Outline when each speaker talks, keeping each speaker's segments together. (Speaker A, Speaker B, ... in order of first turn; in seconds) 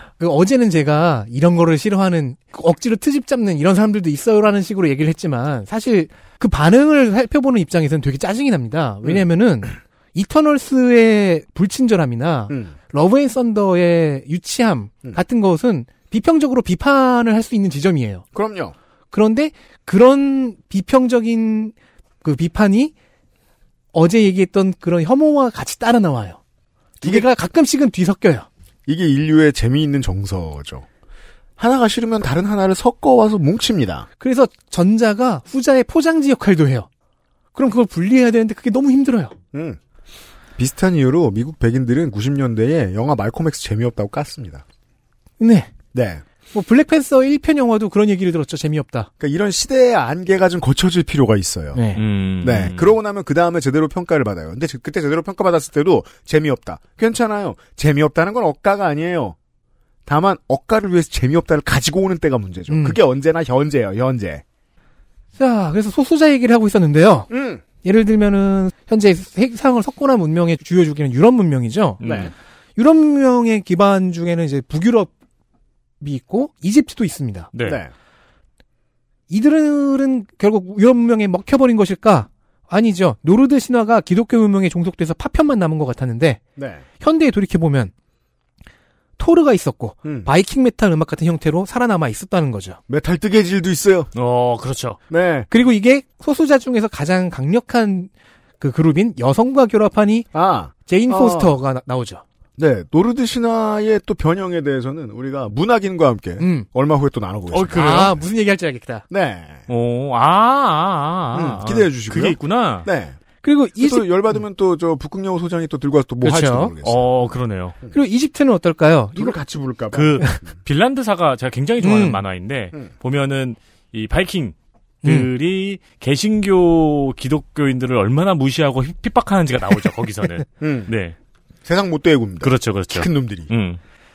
Speaker A: 0.2-18.2, 19.1-22.9, 23.9-26.4, 27.0-28.5, 34.2-36.9, 37.5-39.4, 45.4-45.7, 46.5-49.1, 51.8-52.0, 62.7-63.0, 65.4-67.3, 67.8-72.0, 72.8-75.1, 76.0-77.5, 79.3-86.4, 87.0-87.9, 89.2-92.8, 95.5-100.3, 100.9-102.2, 106.4-106.7, 107.7-109.0, 113.4-114.4, 116.2-116.7, 117.9-119.4, 121.8-122.2, 125.0-125.3
Speaker B: 12.5-12.7, 18.3-18.8, 28.9-30.9, 31.6-34.1, 39.5-39.8, 40.6-44.6, 45.9-46.2, 49.2-51.8, 52.4-59.4, 60.1-64.4, 67.3-67.6, 72.0-72.3, 77.7-77.9, 86.6-86.8, 90.0-90.3, 92.9-94.1, 95.1-95.5, 100.3-101.5, 102.6-108.1, 109.1-109.7, 111.3-113.2, 113.8-118.0, 119.2-120.2, 130.6-130.9, 131.7-133.5
Speaker C: 52.0-53.0, 72.0-72.3, 77.5-77.8, 94.2-95.0, 107.5-108.1, 109.7-112.9, 116.8-117.8, 119.9-131.2, 132.4-133.8